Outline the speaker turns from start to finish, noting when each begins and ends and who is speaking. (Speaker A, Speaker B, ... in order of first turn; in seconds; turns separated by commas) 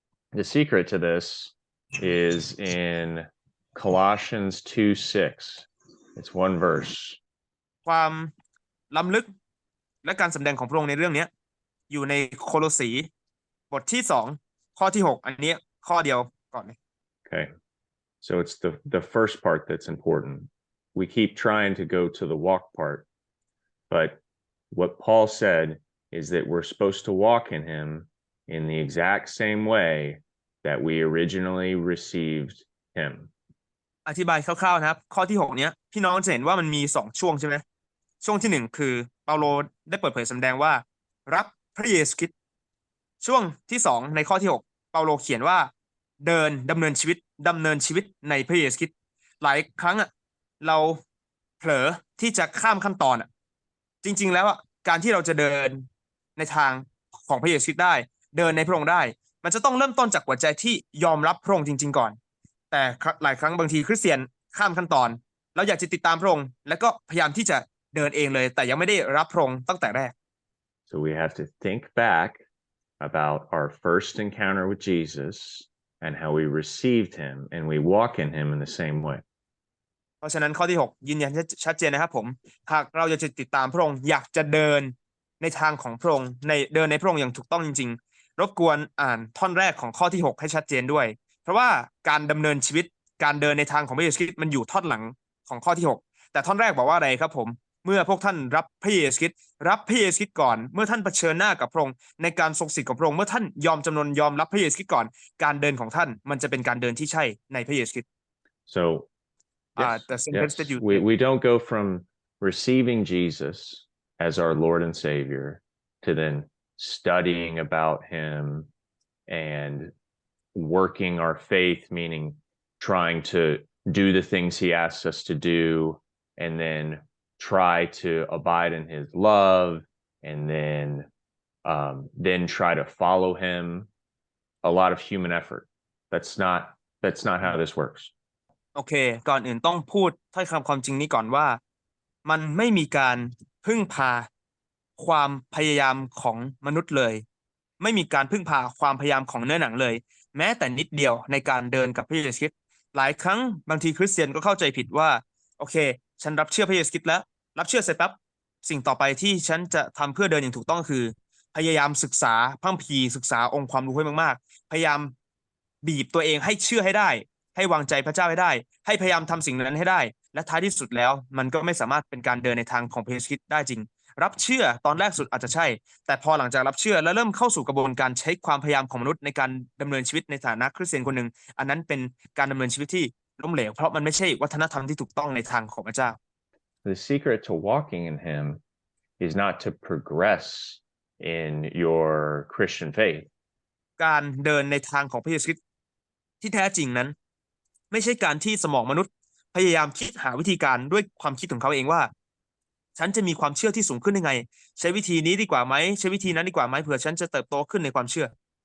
Speaker A: 0.3-7.2, Speaker B: 7.8-8.3, Speaker B: 8.9-9.3, Speaker B: 10.0-11.3, Speaker B: 11.9-13.1, Speaker B: 13.7-16.8, Speaker A: 18.2-23.1, Speaker A: 23.9-24.2, Speaker A: 24.7-33.3, Speaker B: 34.0-37.6, Speaker B: 38.2-42.3, Speaker B: 43.2-45.7, Speaker B: 46.2-50.1, Speaker B: 50.6-51.0, Speaker B: 51.6-53.3, Speaker B: 54.0-62.2, Speaker B: 62.7-70.1, Speaker A: 70.9-72.4, Speaker A: 73.0-79.2, Speaker B: 80.2-108.0, Speaker A: 108.7-109.1, Speaker B: 109.8-111.0, Speaker A: 109.8-118.7, Speaker A: 119.3-119.9, Speaker A: 120.5-131.1, Speaker A: 131.6-133.9, Speaker A: 134.6-138.1, Speaker B: 138.7-141.6, Speaker B: 142.2-144.3, Speaker B: 145.0-147.2, Speaker B: 147.8-165.1, Speaker B: 165.8-186.2, Speaker A: 186.8-188.6, Speaker A: 189.2-193.3, Speaker B: 194.0-195.6, Speaker B: 196.4-197.1, Speaker B: 197.9-202.1, Speaker B: 202.9-208.3